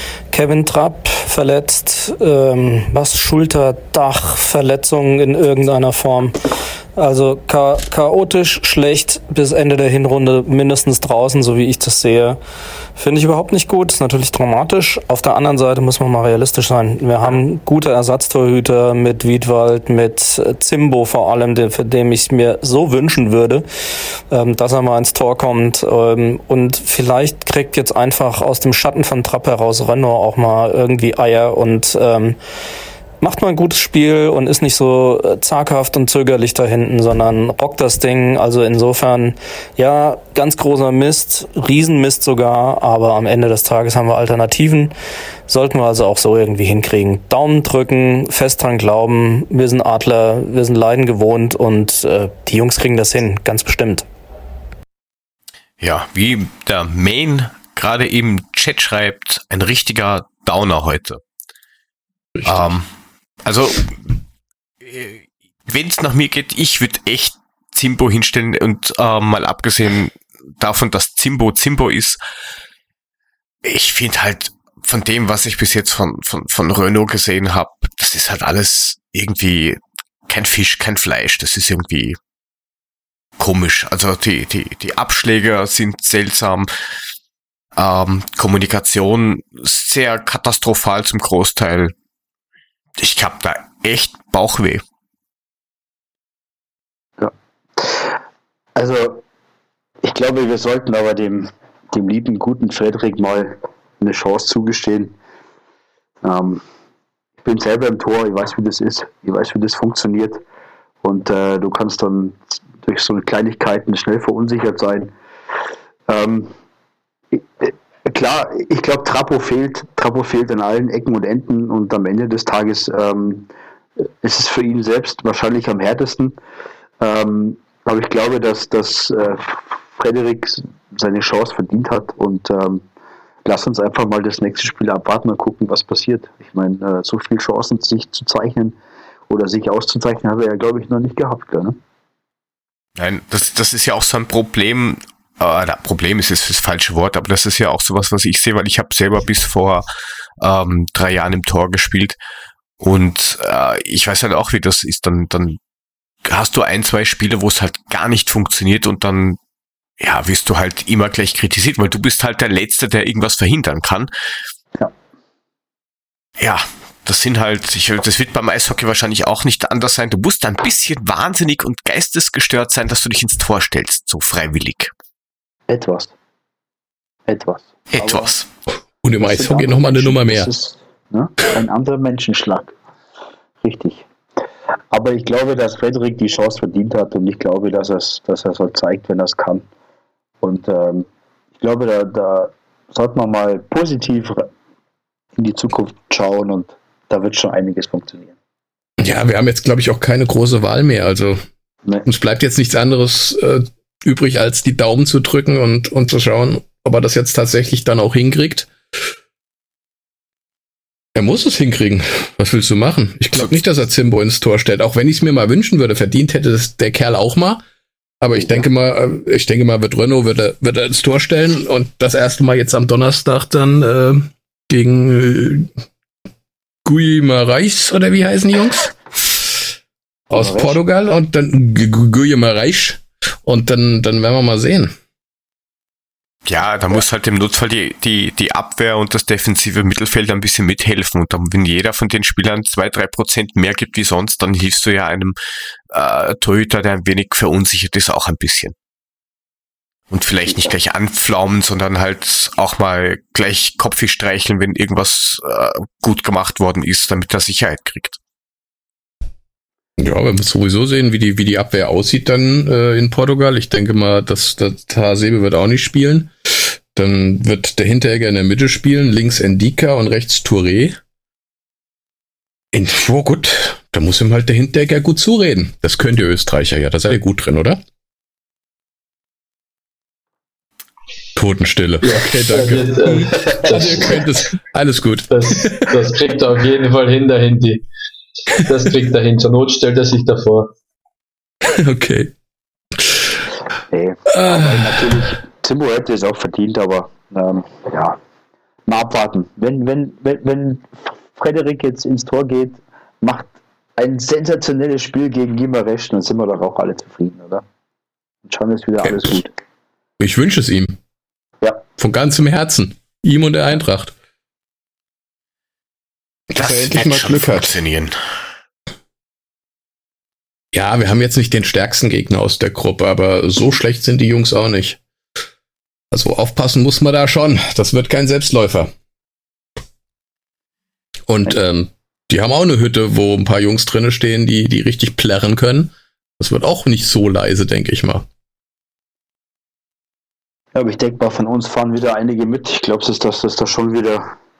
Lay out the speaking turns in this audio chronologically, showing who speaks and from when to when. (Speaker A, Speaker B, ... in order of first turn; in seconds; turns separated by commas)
Speaker A: 0.3-6.3, Speaker A: 7.0-12.4, Speaker A: 13.0-23.6, Speaker A: 24.3-32.4, Speaker A: 33.2-44.9, Speaker A: 45.5-54.1, Speaker B: 55.8-61.2, Speaker C: 62.4-62.7, Speaker B: 62.5-62.9, Speaker B: 63.5-64.2, Speaker B: 64.8-72.2, Speaker B: 73.6-82.2, Speaker B: 83.4-86.7, Speaker B: 87.8-91.9, Speaker B: 93.0-94.8, Speaker D: 97.2-98.1, Speaker D: 98.8-99.2, Speaker D: 100.0-105.2, Speaker D: 106.2-106.6, Speaker D: 107.4-110.4, Speaker D: 111.0-115.1, Speaker D: 116.1-116.5, Speaker D: 117.3-123.5, Speaker D: 124.2-126.4, Speaker D: 127.0-132.8, Speaker D: 133.4-138.8, Speaker D: 139.3-141.8, Speaker B: 143.0-149.9, Speaker B: 150.4-152.2, Speaker B: 152.8-155.6, Speaker B: 156.2-159.4, Speaker B: 160.0-164.1, Speaker B: 166.4-174.9, Speaker D: 175.7-176.1, Speaker D: 177.3-178.3, Speaker B: 177.9-178.5, Speaker C: 179.0-180.5, Speaker D: 179.2-182.8, Speaker D: 183.6-184.0, Speaker D: 184.9-189.7, Speaker D: 190.4-191.1, Speaker D: 191.6-194.5, Speaker D: 195.4-198.3, Speaker C: 199.0-201.4, Speaker C: 202.1-208.7, Speaker C: 211.2-217.6, Speaker C: 218.2-225.7, Speaker C: 226.8-228.9, Speaker D: 230.3-230.8, Speaker C: 230.3-234.9, Speaker B: 236.5-245.4, Speaker B: 245.9-248.8, Speaker B: 250.1-258.2, Speaker C: 260.0-271.0, Speaker C: 272.7-277.8, Speaker C: 281.3-286.0, Speaker E: 282.0-284.3, Speaker E: 285.3-287.8, Speaker E: 288.5-290.7, Speaker C: 291.6-292.3, Speaker C: 293.0-293.4, Speaker D: 293.9-298.2, Speaker C: 294.3-295.3, Speaker D: 298.9-307.6, Speaker D: 308.5-309.5, Speaker C: 310.2-311.0, Speaker C: 312.0-314.1, Speaker C: 316.5-317.7, Speaker B: 316.6-318.2, Speaker C: 320.7-325.0, Speaker C: 326.1-328.9, Speaker C: 331.3-338.2, Speaker D: 340.8-344.3